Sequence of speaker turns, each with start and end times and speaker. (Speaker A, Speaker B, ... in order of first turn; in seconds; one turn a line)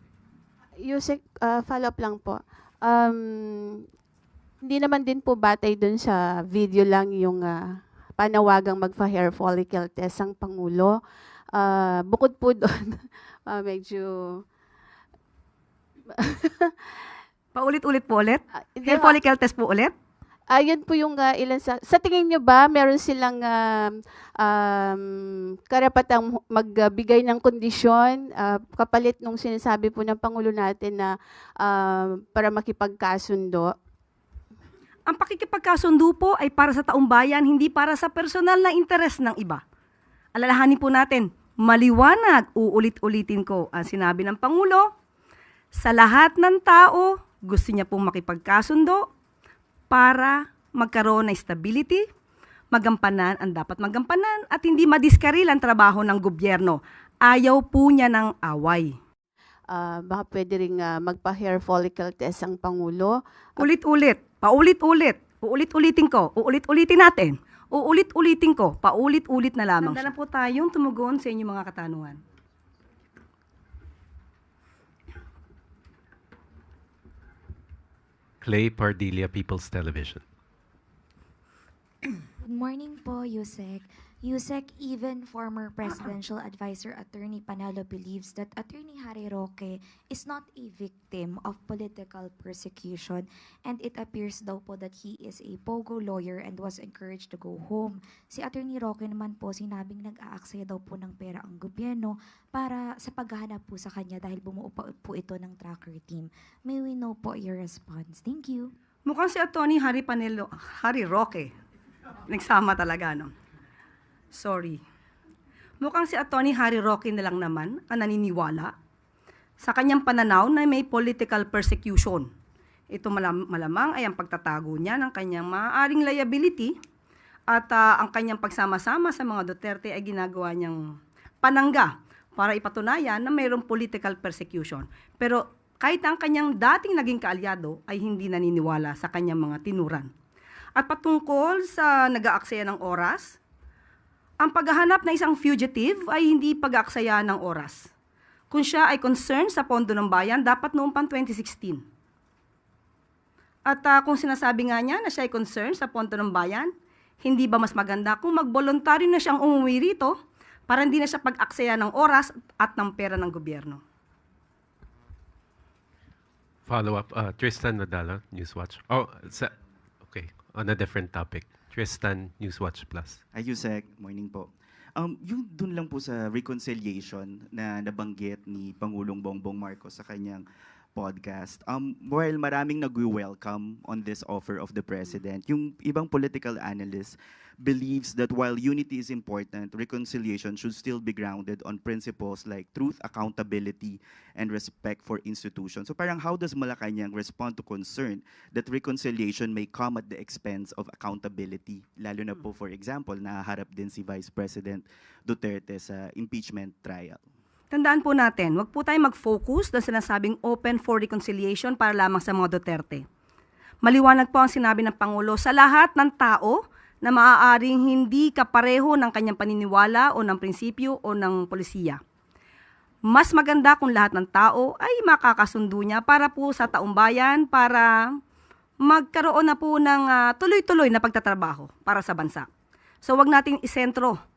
Speaker A: 0.8-3.8
Speaker A: 4.6-7.6
Speaker A: 8.2-10.9
Speaker A: 11.5-14.4
Speaker A: 16.2-16.7
Speaker B: 17.5-19.9
Speaker A: 18.8-19.2
Speaker A: 20.5-25.0
Speaker A: 25.7-33.7
Speaker B: 35.1-39.6
Speaker B: 40.3-44.9
Speaker B: 45.7-49.1
Speaker B: 49.9-52.0
Speaker B: 52.7-58.9
Speaker A: 59.7-63.7
Speaker B: 63.6-72.2
Speaker C: 78.4-80.2
Speaker D: 82.4-108.7
Speaker B: 109.0-111.5
Speaker B: 112.3-113.3
Speaker B: 114.3-114.8
Speaker B: 115.8-118.7
Speaker B: 119.6-122.3
Speaker B: 122.9-126.7
Speaker B: 127.5-140.1
Speaker B: 140.8-143.4
Speaker B: 144.4-147.9
Speaker B: 148.5-151.8
Speaker B: 153.7-156.7
Speaker B: 157.2-160.1
Speaker B: 160.7-163.8
Speaker C: 166.7-169.5
Speaker C: 170.0-173.2
Speaker E: 173.6-174.4
Speaker E: 175.6-180.4
Speaker E: 181.2-187.1
Speaker E: 187.8-198.2
Speaker E: 198.8-200.9
Speaker E: 201.6-204.8
Speaker E: 205.4-207.1
Speaker B: 207.7-213.0
Speaker B: 213.8-222.0
Speaker B: 223.1-227.9
Speaker B: 228.8-232.5
Speaker B: 233.0-234.2